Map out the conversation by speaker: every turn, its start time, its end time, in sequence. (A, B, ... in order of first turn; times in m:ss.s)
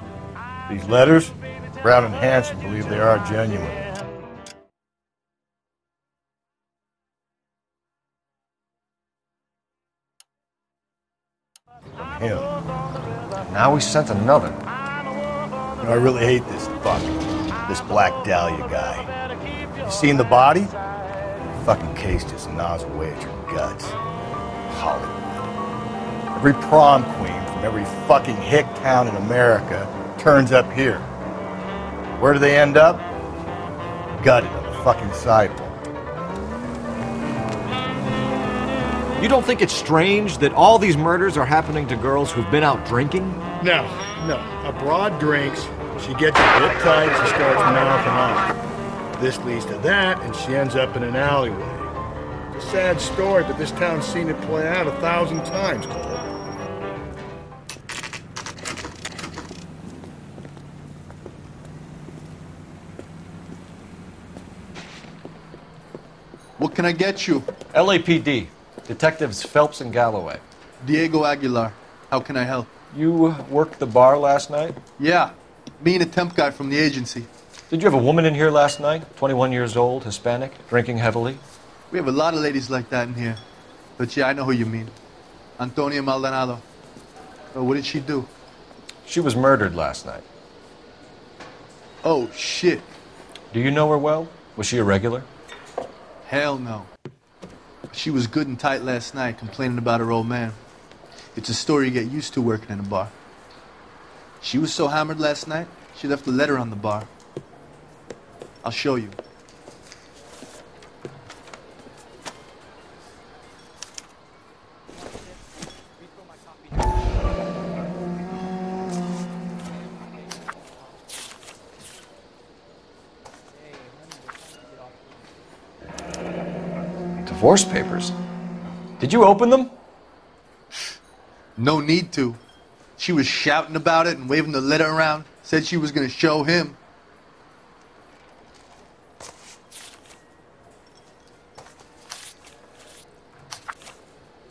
0:00.7-0:03.9 A
0:11.9-0:12.5 A
0:13.4-0:14.6 B
0:15.8-0:19.1 A
0:19.8-0:20.7 A
0:21.5-0:24.0 A
0:24.7-0:25.5 A
0:26.4-0:31.1 A
0:32.2-0:33.1 A
0:34.2-0:35.8 A
0:39.2-0:43.4 B
0:43.6-0:48.5 A
0:49.2-0:51.9 A
0:52.5-0:56.2 A
1:06.6-1:07.5 C
1:07.7-1:10.4 B
1:10.8-1:12.7 C
1:12.9-1:14.8 B
1:15.0-1:17.3 C
1:17.7-1:21.4 B
1:21.9-1:23.4 C
1:24.0-1:24.9 C
1:25.6-1:26.6 C
1:27.5-1:28.3 C
1:29.0-1:30.2 B
1:32.0-1:32.9 C
1:33.5-1:35.2 B
1:36.2-1:36.9 C
1:37.9-1:40.6 C
1:41.3-1:43.1 C
1:44.4-1:47.1 C
1:48.6-1:49.2 C
2:07.2-2:08.1 B
2:09.0-2:09.7 B
2:11.6-2:12.4 C
2:13.0-2:16.8 C